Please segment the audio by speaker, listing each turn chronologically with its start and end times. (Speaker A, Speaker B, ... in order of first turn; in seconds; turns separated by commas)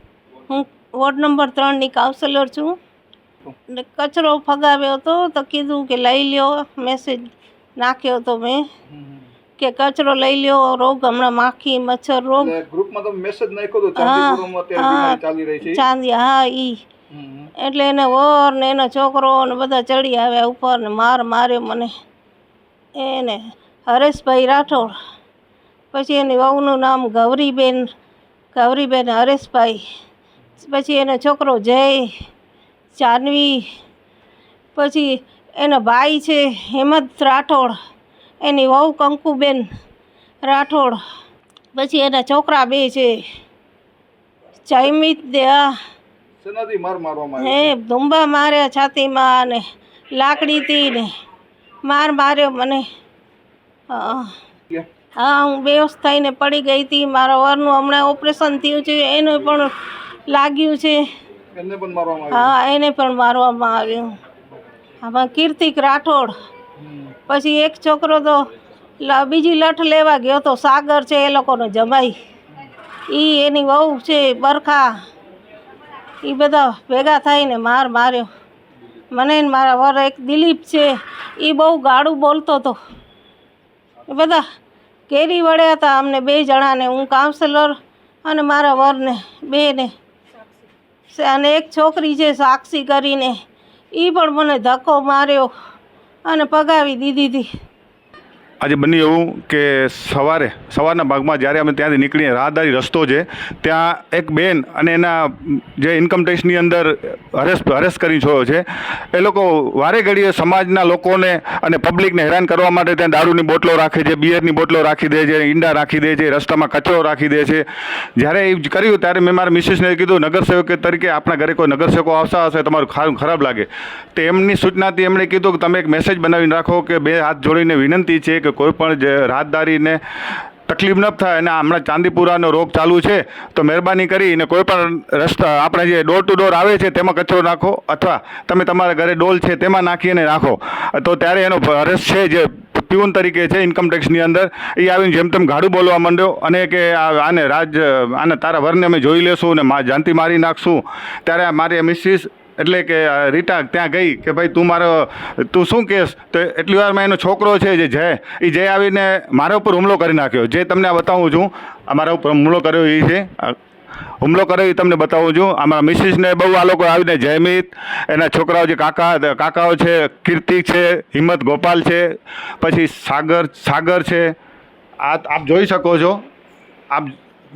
Speaker A: 0.5-2.8, Speaker A: 3.7-7.2, Speaker A: 7.8-8.6, Speaker B: 8.9-9.2, Speaker A: 9.6-12.5, Speaker B: 12.4-15.8, Speaker A: 14.0-16.8, Speaker B: 17.1-17.5, Speaker A: 17.6-21.9, Speaker A: 22.9-25.0, Speaker A: 25.9-27.9, Speaker A: 28.5-29.8, Speaker A: 30.6-32.1, Speaker A: 32.9-33.6, Speaker A: 34.7-37.7, Speaker A: 38.4-39.7, Speaker A: 40.4-41.0, Speaker A: 41.7-43.2, Speaker A: 44.6-45.7, Speaker B: 46.4-47.7, Speaker A: 47.4-51.1, Speaker A: 51.8-52.8, Speaker A: 53.9-54.3, Speaker A: 55.2-59.7, Speaker A: 60.3-61.0, Speaker B: 61.5-62.5, Speaker A: 62.3-64.2, Speaker A: 65.0-66.3, Speaker B: 66.8-67.1, Speaker A: 67.3-68.5, Speaker A: 69.0-72.2, Speaker A: 73.1-74.9, Speaker A: 76.2-78.3, Speaker A: 79.1-82.8, Speaker A: 84.1-84.4, Speaker A: 85.1-89.9, Speaker A: 91.1-93.4, Speaker A: 93.9-95.5, Speaker A: 96.3-97.5, Speaker C: 98.6-130.0, Speaker C: 130.7-163.6, Speaker C: 164.2-174.3, Speaker C: 175.0-176.2